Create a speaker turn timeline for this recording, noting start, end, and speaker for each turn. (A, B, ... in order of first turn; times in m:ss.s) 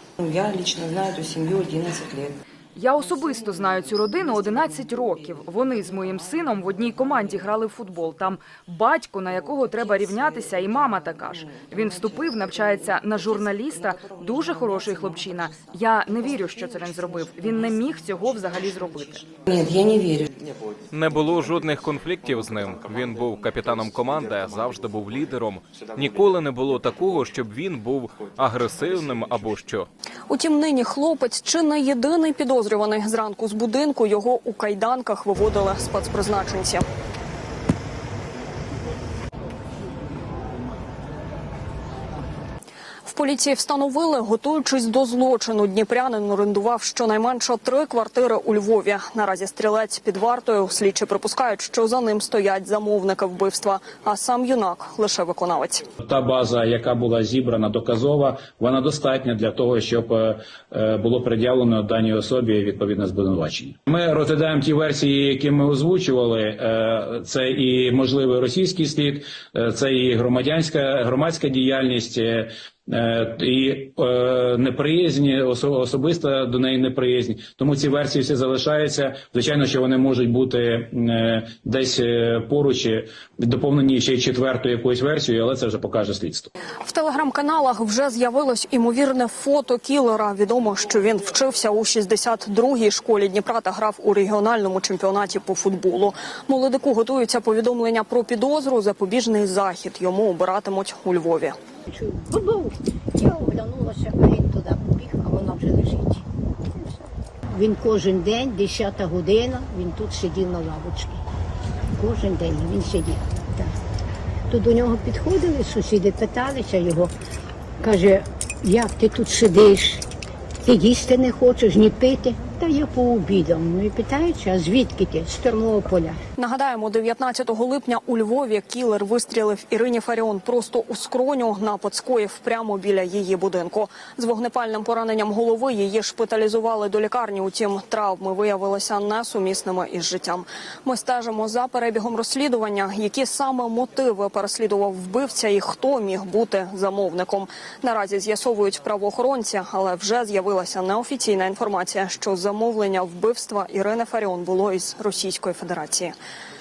0:00.2-0:02.4 A
0:02.8-0:19.3 B
0:19.5-0:20.3 A
0:20.9-0:29.9 C
0:30.3-0:36.8 D
0:43.1-0:55.8 D
0:56.0-1:26.5 E
1:26.8-1:41.6 D
1:41.9-1:46.2 F
1:47.5-1:51.2 F
1:52.0-1:53.7 F
1:54.5-1:57.1 F
1:57.8-2:00.0 F
2:00.6-2:06.2 F
2:06.4-2:36.2 D